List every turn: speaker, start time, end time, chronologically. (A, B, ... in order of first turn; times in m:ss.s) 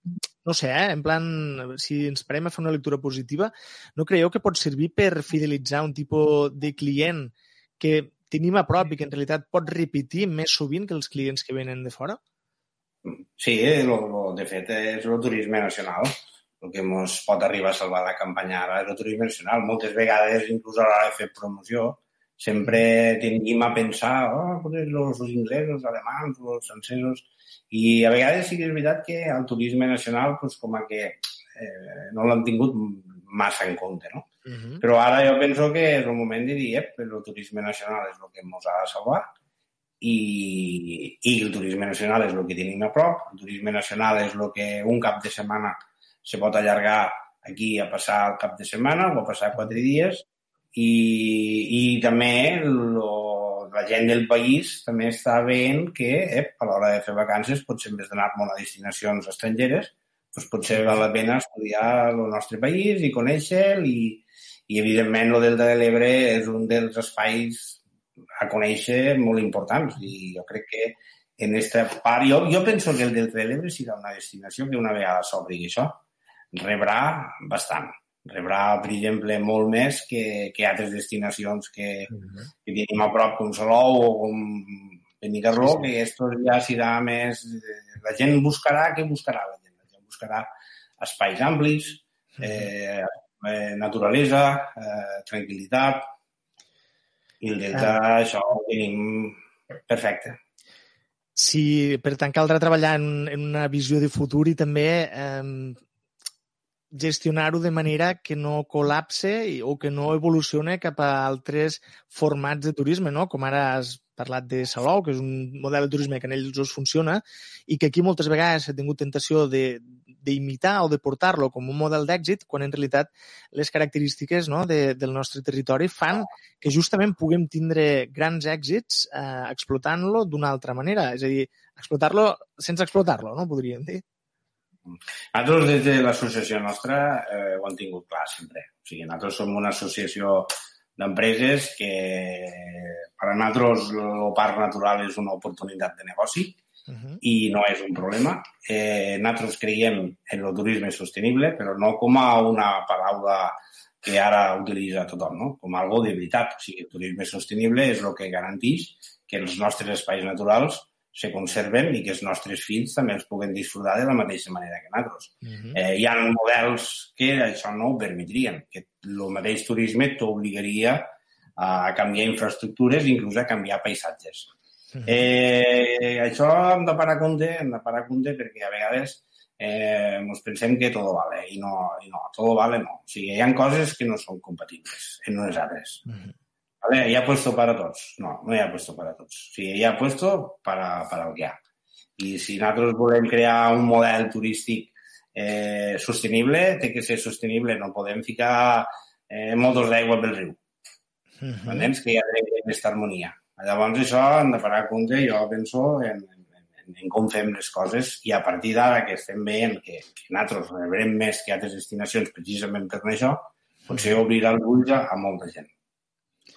0:00.4-0:12.2 A
0:13.0-0:34.3 B
0:34.4-0:34.8 A
0:34.8-0:39.3 B
0:40.0-0:50.2 B
0:50.7-1:07.8 B
1:08.4-1:16.0 B
1:16.5-1:22.1 B
1:22.1-1:22.4 A
1:22.6-1:36.1 B
1:25.5-1:25.8 A
1:32.4-1:32.7 A
1:37.4-1:40.4 B
1:37.7-1:38.0 A
1:41.4-1:45.8 A
1:46.9-2:14.0 A
2:14.9-2:26.6 B
2:26.9-2:27.2 A
2:27.2-2:54.5 B
2:45.4-2:45.8 A
2:55.0-3:06.0 B
3:06.8-3:11.6 B
3:12.2-3:20.6 B
3:21.4-3:21.9 A
3:21.6-3:35.7 B
3:33.9-3:34.2 A